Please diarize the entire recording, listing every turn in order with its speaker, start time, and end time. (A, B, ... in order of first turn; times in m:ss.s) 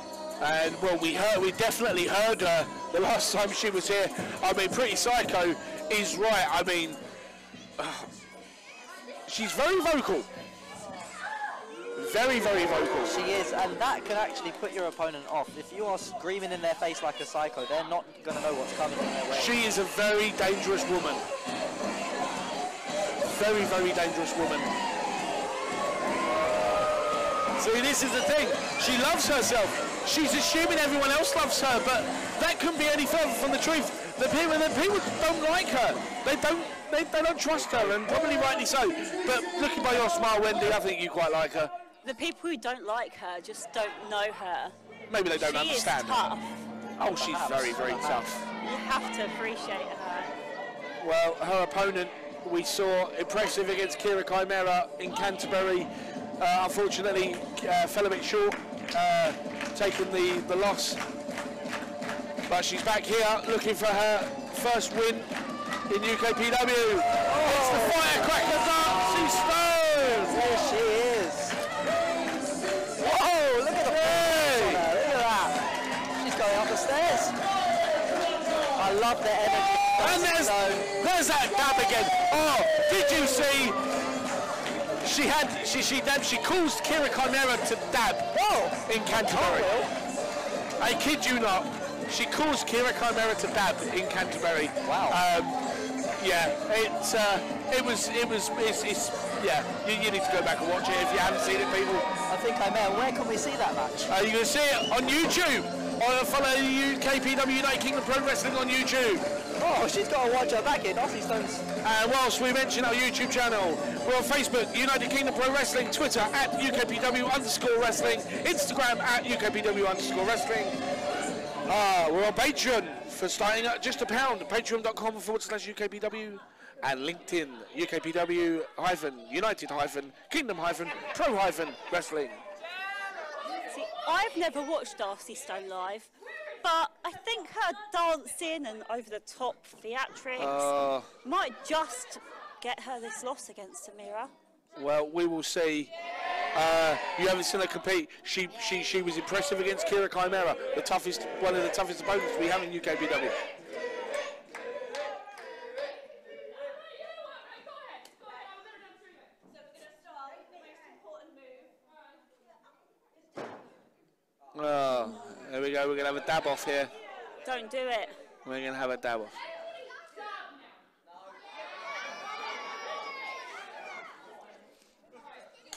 0:00.4-0:07.0 A
0:07.8-0:08.1 A
0:09.3-0:10.3 A
0:12.0-0:13.2 A
0:13.0-0:19.6 B
0:19.3-0:21.2 A
0:23.3-0:24.7 A
0:27.6-0:41.7 A
0:37.6-0:38.0 B
0:42.0-0:44.8 C
0:45.1-0:46.3 A
0:45.3-0:46.6 C
0:47.0-0:48.5 A
0:47.1-0:48.3 B
0:48.6-0:50.3 C
0:51.0-1:01.0 A
1:02.5-1:05.3 A
1:05.9-1:10.5 A
1:07.3-1:08.4 B
1:10.3-1:11.6 B
1:13.0-1:15.6 B
1:13.7-1:14.9 A
1:16.2-1:17.4 B
1:18.7-1:20.9 B
1:20.0-1:23.8 A
1:25.0-1:28.3 A
1:28.3-1:29.9 B
1:28.9-1:29.7 A
1:30.8-1:35.6 A
1:34.8-1:35.2 B
1:36.2-1:42.1 A
1:42.3-1:44.1 B
1:44.1-1:49.3 A
1:49.6-1:51.7 B
1:51.8-2:00.8 A
2:01.6-2:12.4 A
2:13.7-2:16.1 C
2:16.6-2:20.7 C
2:20.4-2:21.1 A
2:21.2-2:24.3 C
2:24.8-2:25.9 A
2:26.5-2:33.4 A
2:44.5-2:46.9 A
2:47.4-2:48.2 C
2:48.4-2:49.4 A